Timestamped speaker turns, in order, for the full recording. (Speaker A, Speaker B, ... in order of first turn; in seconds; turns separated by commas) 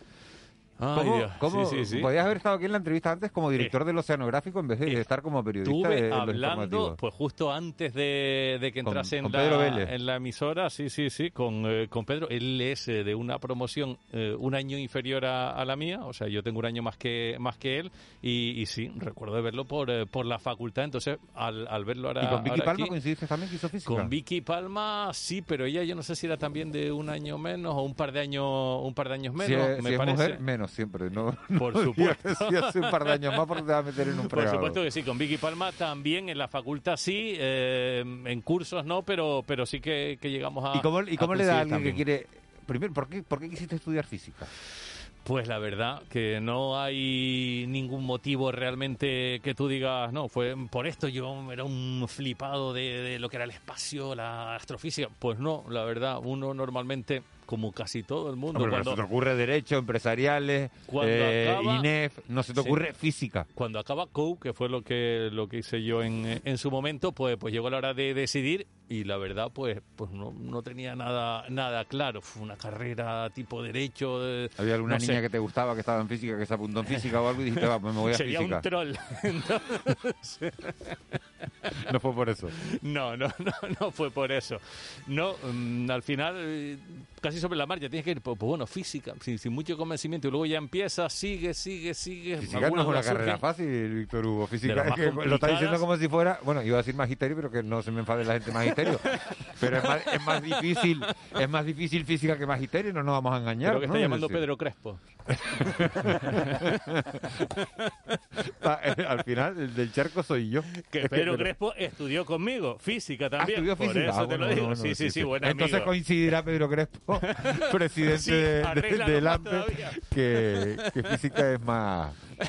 Speaker A: 0.8-2.1, Speaker B: 0.9-7.0, Speaker A: 5.6-22.9, Speaker B: 8.8-9.9, Speaker B: 22.2-24.1, Speaker A: 23.9-30.4, Speaker B: 29.4-34.8, Speaker A: 31.6-33.5, Speaker A: 34.2-42.0, Speaker B: 40.7-44.5, Speaker A: 45.2-59.0, Speaker B: 58.5-63.5, Speaker A: 60.9-61.9, Speaker A: 62.5-62.8, Speaker A: 63.5-75.2, Speaker B: 74.6-78.7, Speaker A: 77.0-81.8, Speaker B: 81.8-82.6, Speaker A: 82.7-93.4, Speaker B: 92.4-104.4, Speaker A: 94.6-95.8, Speaker A: 98.7-101.1, Speaker A: 103.6-105.0, Speaker B: 105.3-107.3, Speaker A: 105.5-108.1, Speaker B: 108.4-111.5, Speaker A: 110.8-115.9, Speaker B: 113.4-122.2, Speaker A: 117.2-121.4